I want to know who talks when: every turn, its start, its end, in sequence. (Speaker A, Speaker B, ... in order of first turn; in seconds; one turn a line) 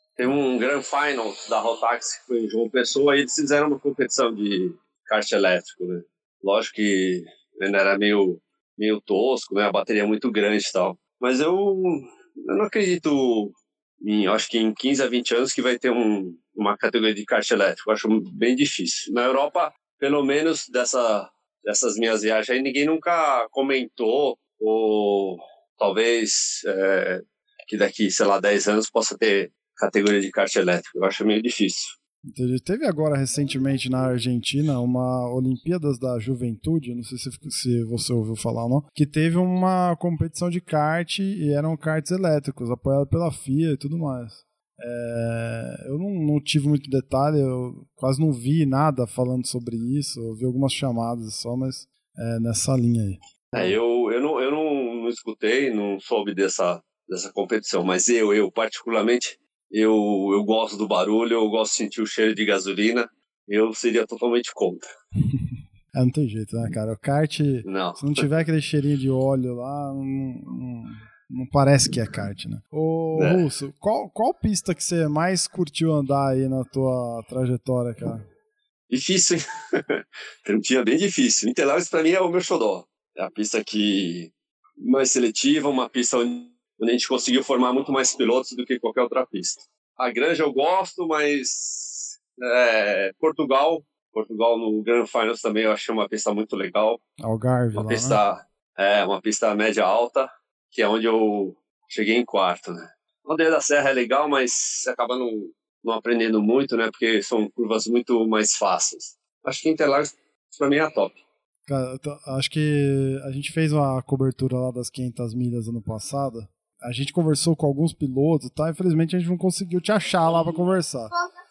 Speaker A: 0.2-32.0
Speaker B: 32.3-53.8
Speaker A: 53.5-64.9
Speaker B: 65.3-78.2
Speaker A: 67.7-68.3
Speaker A: 73.1-73.5
Speaker A: 78.9-97.0
Speaker B: 97.2-98.2
Speaker A: 97.8-111.2
Speaker B: 111.7-121.1